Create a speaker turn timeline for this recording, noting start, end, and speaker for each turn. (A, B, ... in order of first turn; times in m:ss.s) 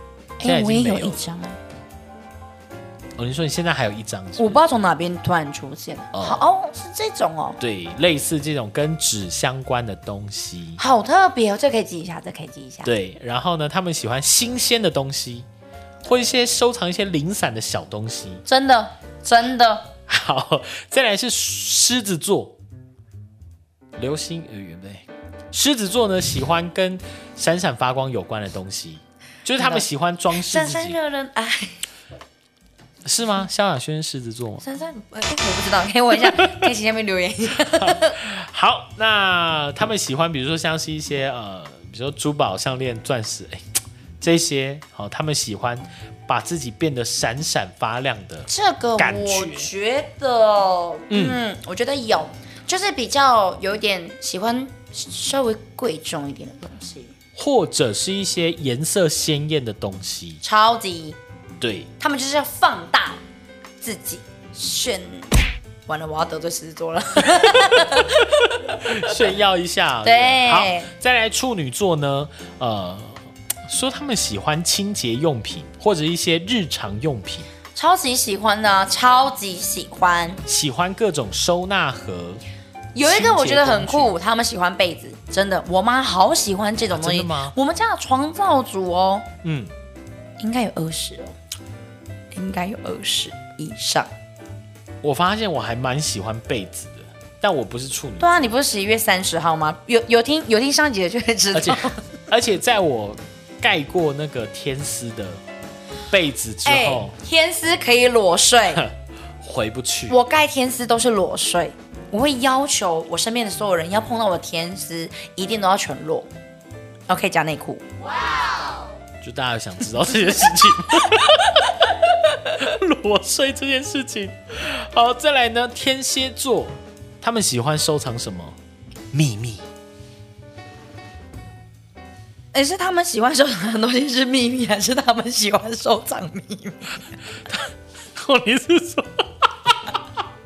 0:00.4-0:01.6 A
0:00.4-0:01.2 B
0:03.2-0:04.6 B
0:04.4-0:07.6 A
0:06.1-0:06.4 B
0:07.6-0:10.8 B
0:10.8-0:12.9 A
0:12.8-0:15.5 B
0:16.0-0:18.4 B
0:18.5-0:19.9 A
0:20.1-0:22.6 B
0:24.0-0:31.0 B
0:29.6-0:31.9 A
0:33.0-0:34.6 B
0:34.6-0:38.3 A
0:36.3-0:36.7 B
0:37.6-0:49.7 B
0:48.5-0:57.1 A
0:51.1-0:51.4 B
0:57.4-1:00.4 B
1:00.4-1:01.2 A
1:01.6-1:01.9 B
1:02.0-1:03.2 A
1:03.8-1:08.4 A
1:08.3-1:17.5 B
1:10.0-1:10.9 A
1:17.8-1:20.4 A
1:20.5-1:22.4 B
1:23.0-1:29.3 A
1:23.0-1:24.1 B
1:26.8-1:27.6 B
1:29.4-1:29.7 B
1:30.4-1:31.4 A
1:32.3-1:34.1 A
1:35.0-1:38.4 B
1:38.2-1:42.0 A
1:41.5-1:45.4 B
1:46.1-1:47.1 B
1:46.6-1:48.8 A
1:48.7-1:50.2 B
1:50.1-1:56.3 A
1:57.1-1:57.8 A
1:59.2-2:08.6 B
2:09.1-2:09.6 B
2:12.5-2:17.0 A
2:17.5-2:19.9 B